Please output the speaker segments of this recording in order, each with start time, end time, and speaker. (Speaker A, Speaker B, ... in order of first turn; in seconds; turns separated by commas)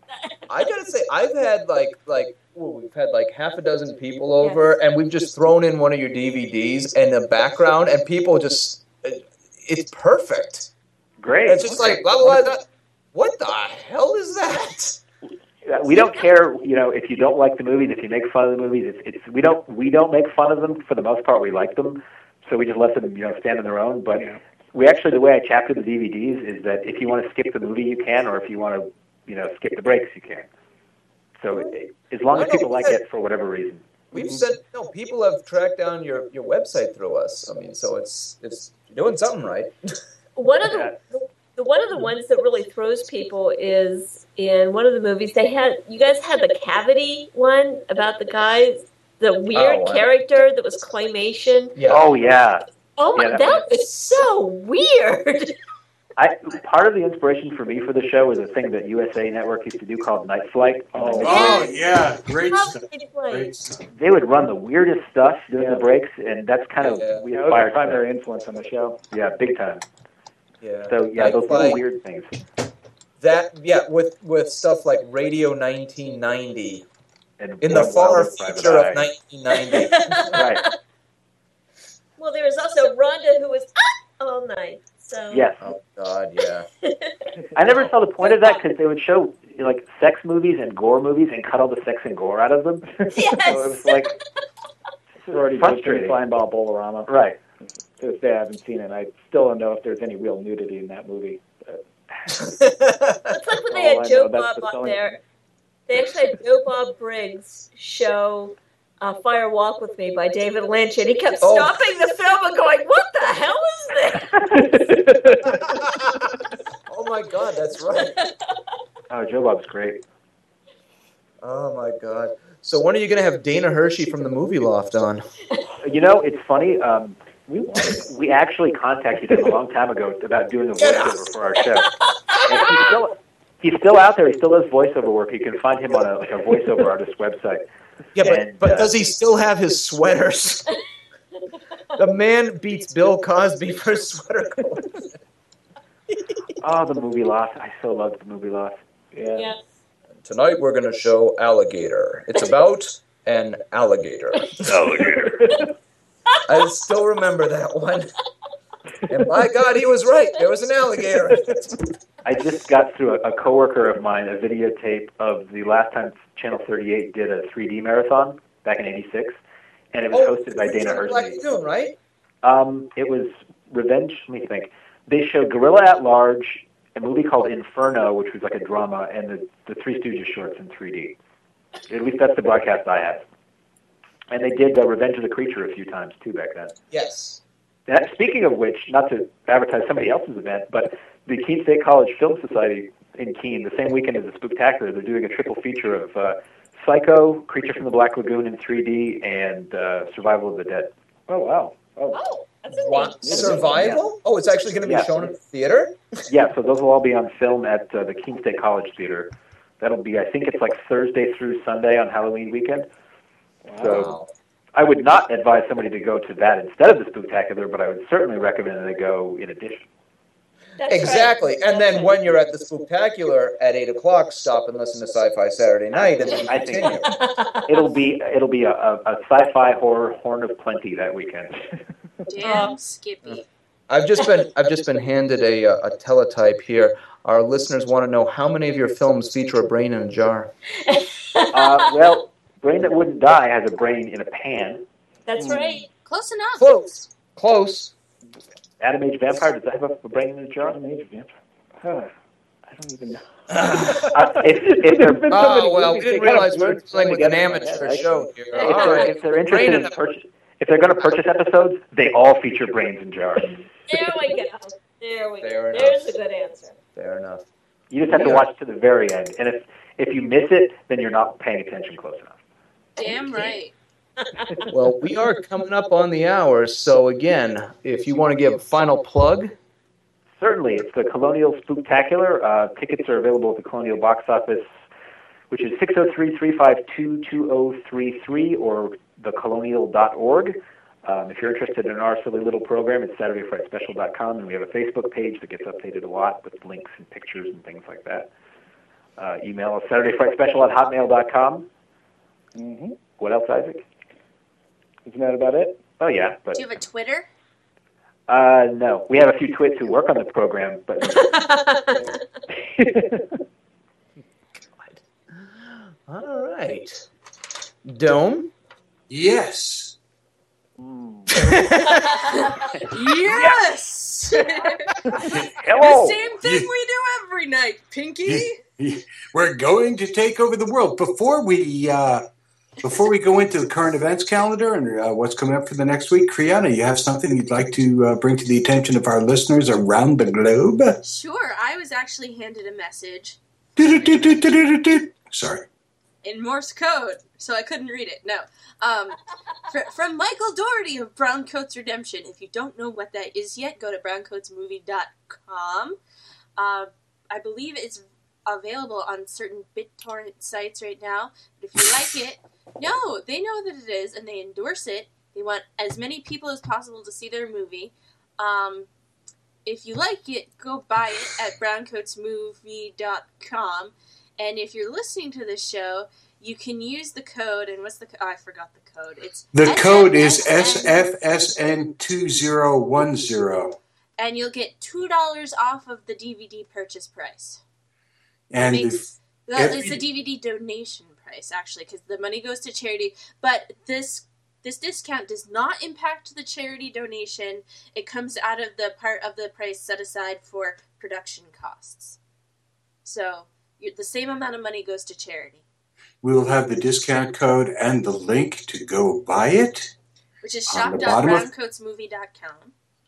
Speaker A: 0.5-10.7, Speaker B: 11.2-12.4, Speaker A: 11.4-12.6, Speaker A: 13.1-15.0, Speaker B: 15.6-30.5, Speaker B: 31.4-33.9, Speaker A: 32.3-33.0, Speaker A: 34.1-39.7, Speaker C: 34.1-34.4, Speaker D: 40.4-51.8, Speaker B: 40.7-41.0, Speaker A: 49.5-50.0, Speaker A: 51.8-52.1, Speaker B: 51.9-52.6, Speaker D: 53.0-55.5, Speaker B: 53.1-53.6, Speaker B: 56.2-61.6, Speaker C: 60.9-61.5, Speaker D: 61.2-61.8, Speaker E: 61.2-63.9, Speaker D: 62.4-63.5, Speaker B: 63.9-68.0, Speaker C: 65.5-65.9, Speaker A: 66.8-67.2, Speaker C: 67.3-69.0, Speaker B: 69.1-69.8, Speaker A: 70.6-71.8, Speaker B: 70.9-72.4, Speaker A: 73.2-76.9, Speaker B: 77.4-79.1, Speaker A: 77.6-80.1, Speaker D: 79.6-80.7, Speaker B: 80.3-80.6, Speaker D: 82.2-85.5, Speaker B: 85.3-85.6, Speaker A: 85.6-86.7, Speaker D: 86.8-87.3, Speaker B: 87.5-92.9, Speaker D: 88.2-88.6, Speaker D: 93.1-94.2, Speaker B: 93.5-94.1, Speaker C: 93.5-93.8, Speaker C: 95.3-97.1, Speaker B: 95.3-96.2, Speaker B: 97.0-97.4, Speaker C: 98.0-101.8, Speaker A: 102.5-103.3, Speaker D: 103.3-105.2, Speaker C: 103.7-105.2, Speaker D: 105.9-114.4, Speaker A: 111.4-111.7, Speaker C: 114.6-115.4, Speaker A: 115.4-116.3, Speaker A: 116.9-118.1, Speaker D: 118.1-118.4, Speaker B: 119.1-120.0, Speaker A: 121.4-125.3, Speaker B: 125.8-127.2, Speaker C: 127.5-128.1, Speaker B: 127.9-131.9, Speaker A: 130.8-131.3, Speaker D: 132.3-132.9, Speaker B: 132.4-137.6, Speaker A: 138.2-140.7, Speaker B: 138.2-138.9, Speaker A: 142.0-145.1, Speaker B: 146.6-148.8, Speaker C: 149.1-149.5, Speaker A: 150.2-155.1, Speaker B: 154.6-155.6, Speaker A: 156.4-158.1, Speaker A: 159.1-161.8, Speaker B: 162.2-169.4, Speaker B: 169.9-171.4, Speaker A: 170.1-171.9, Speaker B: 172.4-181.1, Speaker B: 181.9-183.2, Speaker B: 184.3-186.7, Speaker A: 186.9-187.4, Speaker B: 187.9-200.9, Speaker C: 201.3-202.2, Speaker D: 202.1-204.0, Speaker A: 202.7-206.0, Speaker C: 203.2-203.9, Speaker B: 203.3-204.0, Speaker B: 204.8-205.2, Speaker B: 206.3-212.9, Speaker C: 213.6-214.0, Speaker B: 213.8-214.1, Speaker A: 213.8-214.3, Speaker B: 214.7-219.9, Speaker D: 220.8-222.2, Speaker A: 220.9-227.1, Speaker B: 225.9-227.1, Speaker D: 227.1-227.9, Speaker B: 227.7-231.6, Speaker F: 232.3-233.4, Speaker D: 232.4-232.7, Speaker A: 233.2-240.5, Speaker D: 240.8-241.9, Speaker B: 241.5-244.8, Speaker D: 245.3-245.9, Speaker C: 245.4-245.8, Speaker F: 246.1-246.7, Speaker A: 246.6-247.9, Speaker B: 248.8-250.8, Speaker C: 250.6-252.1, Speaker C: 252.7-254.0, Speaker A: 253.5-254.1, Speaker B: 253.8-263.7, Speaker C: 254.7-256.8, Speaker A: 255.3-259.9, Speaker D: 258.5-259.1, Speaker D: 263.9-266.8, Speaker A: 265.4-266.1, Speaker A: 266.9-267.4, Speaker B: 267.9-272.4, Speaker A: 268.1-268.4, Speaker F: 273.0-273.7, Speaker D: 274.2-274.6, Speaker A: 274.7-279.5, Speaker B: 280.4-284.8, Speaker B: 285.5-298.3, Speaker B: 299.2-301.7, Speaker C: 302.6-303.0, Speaker B: 303.2-303.9, Speaker C: 305.0-305.8, Speaker B: 306.0-306.7, Speaker F: 306.5-307.3, Speaker B: 308.3-311.3, Speaker D: 311.0-312.1, Speaker C: 312.7-313.2, Speaker A: 314.8-317.0, Speaker A: 317.9-318.5, Speaker E: 319.1-319.9, Speaker C: 320.8-321.5, Speaker A: 321.4-322.2, Speaker D: 321.8-322.4, Speaker F: 322.9-324.9, Speaker E: 325.2-325.7, Speaker B: 325.6-326.2, Speaker F: 325.7-328.6, Speaker E: 326.4-326.7, Speaker E: 328.2-332.2, Speaker E: 332.8-341.2, Speaker F: 341.2-343.4, Speaker E: 343.8-345.6, Speaker F: 346.2-356.0, Speaker F: 356.6-368.9, Speaker F: 369.6-381.1, Speaker E: 379.5-383.8, Speaker F: 384.2-387.6, Speaker E: 388.5-390.1, Speaker F: 388.6-402.2, Speaker F: 403.1-405.6, Speaker E: 406.2-409.9, Speaker F: 410.4-412.7, Speaker E: 410.7-411.5